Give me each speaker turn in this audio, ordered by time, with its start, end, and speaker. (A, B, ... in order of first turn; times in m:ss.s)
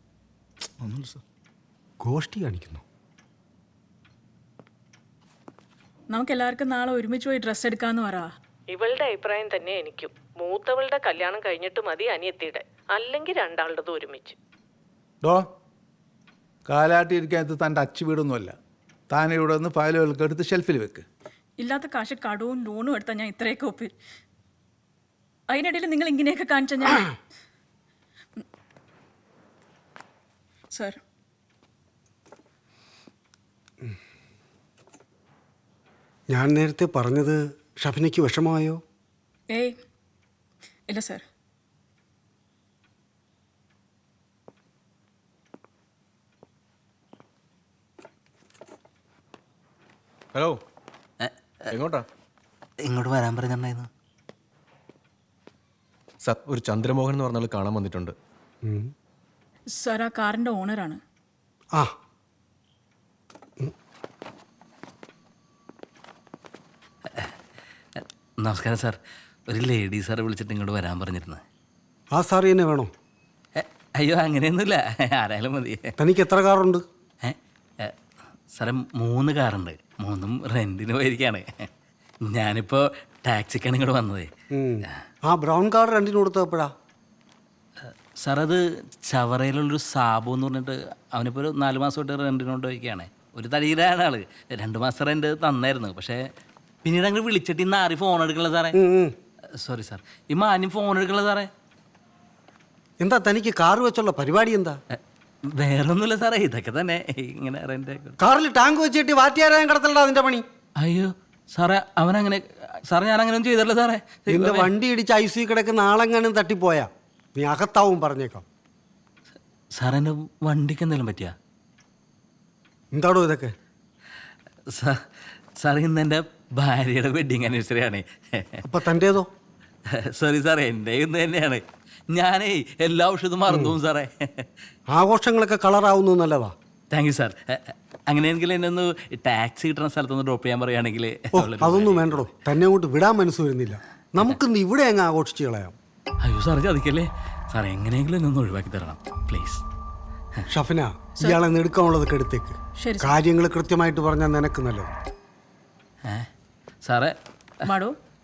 0:00.9-0:01.2 A
0:02.0-0:02.8 B
0:06.1-0:08.3 C
0:08.7-0:14.4 D
0:16.7-0:18.6 A
0:19.1-0:21.0 A
0:21.6-0:23.9 C
0:25.5-0:27.1 C
0:30.7-0:31.0 C
0:36.3-0:38.8 B
0:39.5-0:39.8 C
0:40.9-0:41.2 C
0:50.3-0:50.6 E
0:51.7-0:52.0 E
0:52.8-0:53.9 F
0:56.2-0:58.1 E
0:58.6-0:58.9 B
0:59.8-1:01.0 C
1:08.0-1:09.0 F
1:09.5-1:11.4 F
1:12.1-1:12.9 B
1:13.6-1:15.8 F
1:16.0-1:16.8 B
1:17.2-1:17.9 F
1:18.5-1:21.4 F
1:22.3-1:24.3 F
1:24.5-1:26.7 B
1:28.2-1:36.2 F
1:36.8-1:38.8 F
1:38.7-1:39.1 B
1:39.6-1:41.5 F
1:43.0-1:44.8 B
1:45.6-1:48.2 F
1:48.2-1:50.4 B
1:50.8-1:54.7 F
1:54.3-1:58.4 B
1:59.8-2:01.3 F
2:02.9-2:03.5 B
2:05.6-2:08.6 F
2:08.6-2:09.3 B
2:10.0-2:11.6 F
2:12.1-2:14.4 F
2:13.5-2:13.8 B
2:14.9-2:16.5 B
2:16.9-2:22.3 F
2:21.3-2:25.7 B
2:26.2-2:29.6 F
2:30.5-2:34.9 B
2:32.8-2:33.2 C
2:36.8-2:37.1 F
2:37.6-2:37.9 C